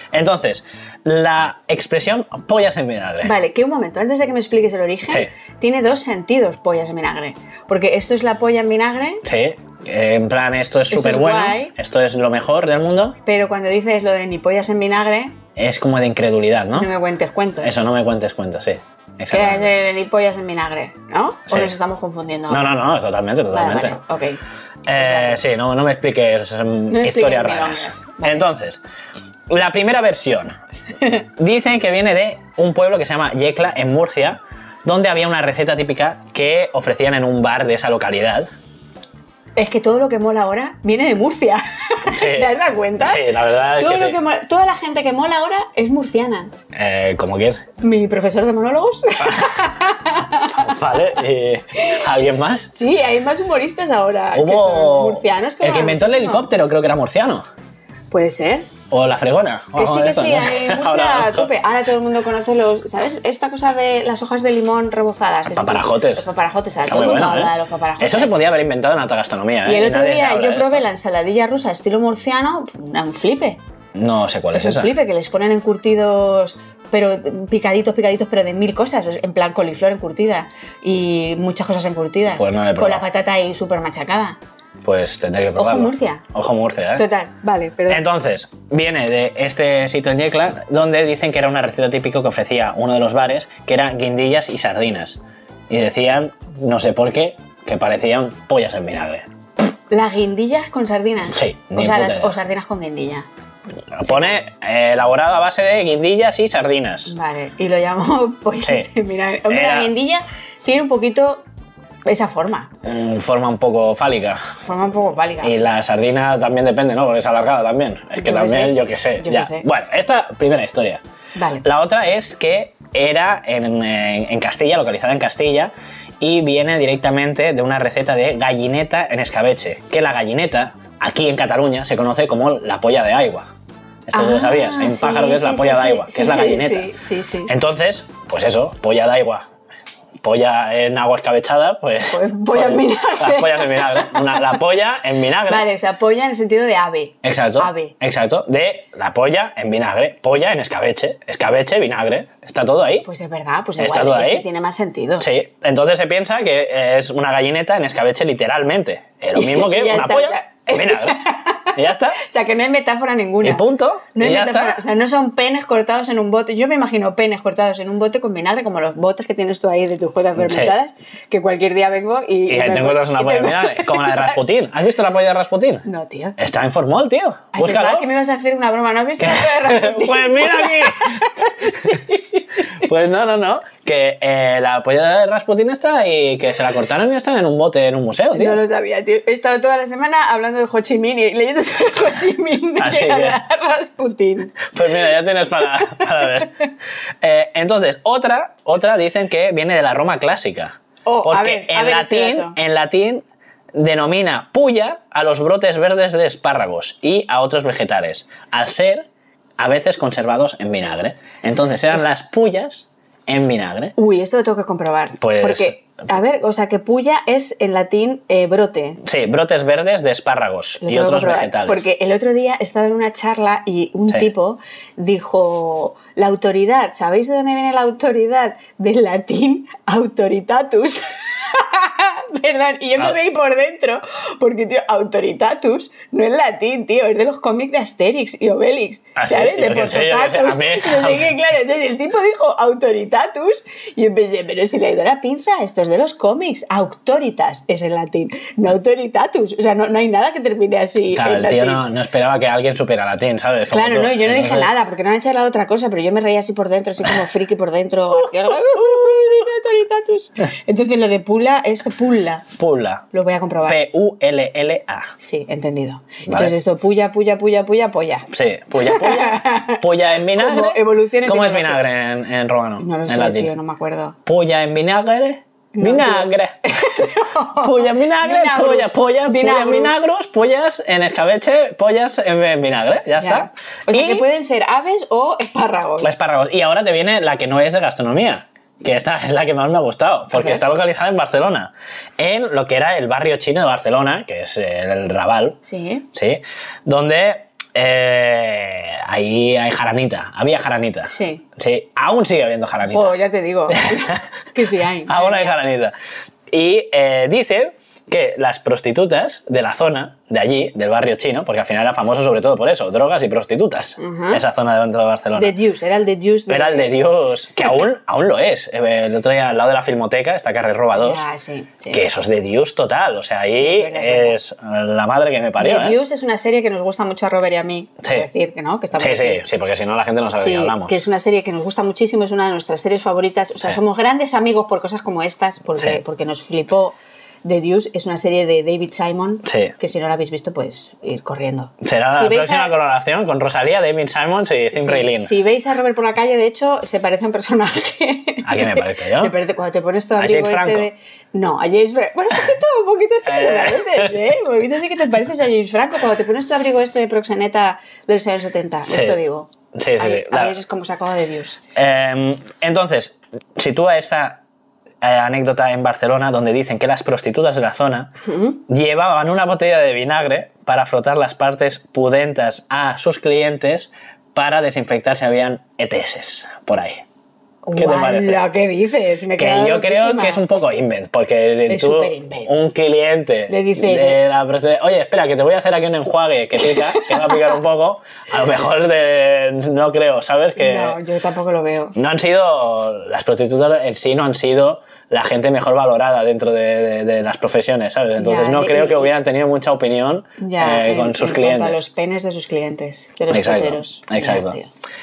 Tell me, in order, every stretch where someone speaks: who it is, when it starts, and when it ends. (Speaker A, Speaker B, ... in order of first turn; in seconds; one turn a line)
Speaker A: 0.1-3.4
Speaker B: 3.2-9.2
Speaker A: 9.2-13.2
Speaker B: 10.9-11.7
Speaker B: 13.3-15.4
Speaker A: 15.6-16.9
Speaker B: 16.7-17.7
Speaker A: 17.6-19.7
Speaker B: 19.3-22.7
Speaker A: 21.5-21.8
Speaker A: 22.5-24.0
Speaker B: 23.5-24.4
Speaker A: 24.9-28.8
Speaker B: 25.0-25.4
Speaker B: 26.9-28.5
Speaker A: 29.5-30.6
Speaker A: 31.4-38.5
Speaker B: 39.6-46.5
Speaker A: 42.1-44.2
Speaker A: 46.7-47.6
Speaker B: 47.8-50.8
Speaker A: 49.2-49.5
Speaker A: 50.5-52.7
Speaker B: 52.7-56.5
Speaker A: 54.3-57.5
Speaker B: 58.1-58.7
Speaker A: 58.9-61.5
Speaker B: 59.7-68.4
Speaker A: 65.5-66.2
Speaker A: 66.8-70.8
Speaker B: 69.7-73.6
Speaker A: 74.0-74.9
Speaker B: 74.5-84.4
Speaker A: 82.3-83.0
Speaker A: 84.8-87.0
Speaker B: 85.6-86.2
Speaker B: 87.0-88.0
Speaker A: 87.9-99.3
Speaker B: 99.9-103.3
Speaker A: 101.3-102.3
Speaker A: 103.9-107.1
Speaker B: 104.1-104.4
Speaker B: 107.1-111.4
Speaker A: 108.6-108.9
Speaker A: 109.5-109.9
Speaker B: 112.1-112.7
Speaker A: 112.8-114.4
Speaker B: 114.6-115.6
Speaker A: 115.4-121.0
Speaker B: 118.2-119.7
Speaker B: 121.4-121.7
Speaker A: 121.6-133.5
Speaker A: 134.1-136.9
Speaker B: 134.1-137.5
Speaker A: 137.5-139.5
Speaker A: 140.2-145.7
Speaker B: 142.1-144.6
Speaker B: 145.5-147.9
Speaker A: 147.2-153.1
Speaker B: 153.1-155.3
Speaker A: 153.8-154.5
Speaker A: 155.2-161.2
Speaker B: 159.3-174.4
Speaker A: 161.7-162.2
Speaker A: 163.4-164.8
Speaker A: 170.4-170.8
Speaker A: 172.5-175.9
Speaker B: 175.9-176.4
Speaker A: 176.4-178.1
Speaker B: 177.5-182.4
Speaker A: 179.2-182.0
Speaker A: 182.8-188.6
Speaker B: 188.3-194.7
Speaker A: 192.8-193.4
Speaker A: 194.7-196.6
Speaker B: 195.7-196.4
Speaker A: 197.2-213.9
Speaker B: 201.1-202.6
Speaker B: 214.0-219.0
Speaker A: 215.2-215.8
Speaker A: 219.0-221.8
Speaker B: 220.8-251.8
Speaker A: 239.2-241.3
Speaker A: 251.1-254.7
Speaker B: 253.7-262.5
Speaker A: 258.7-259.2
Speaker A: 262.6-263.1
Speaker B: 263.1-263.8
Speaker A: 263.6-265.1
Speaker B: 265.2-268.3
Speaker A: 266.3-266.5
Speaker A: 268.3-273.5
Speaker B: 268.8-271.8
Speaker B: 272.8-274.2
Speaker A: 274.2-276.6
Speaker B: 275.7-280.0
Speaker A: 277.6-284.2
Speaker B: 283.2-286.1
Speaker A: 286.0-295.6
Speaker B: 290.3-290.6
Speaker B: 295.6-296.1
Speaker A: 296.1-303.1
Speaker B: 301.1-301.4
Speaker B: 302.9-305.6
Speaker A: 303.7-304.2
Speaker A: 305.1-305.9
Speaker A: 306.5-315.6
Speaker B: 314.0-314.4
Speaker B: 315.4-316.9
Speaker A: 316.5-321.2
Speaker B: 320.9-322.0
Speaker A: 321.9-326.0
Speaker B: 323.5-324.4
Speaker B: 325.6-329.4
Speaker A: 329.0-331.0
Speaker B: 330.3-342.7
Speaker A: 339.4-339.7
Speaker A: 341.8-345.3
Speaker B: 344.7-361.6
Speaker A: 348.4-349.4
Speaker A: 350.2-350.9
Speaker A: 353.2-354.2
Speaker A: 358.9-359.2
Speaker A: 359.7-360.6
Speaker A: 361.8-364.4
Speaker A: 365.0-368.1
Speaker B: 368.2-368.6
Speaker A: 368.7-377.0
Speaker B: 377.6-380.4
Speaker A: 377.8-378.4
Speaker A: 379.4-391.0
Speaker B: 381.7-382.6
Speaker B: 383.5-384.2
Speaker B: 386.7-387.6
Speaker B: 390.6-392.0
Speaker A: 392.0-401.8
Speaker B: 398.2-399.1
Speaker B: 400.4-404.7
Speaker A: 403.3-404.6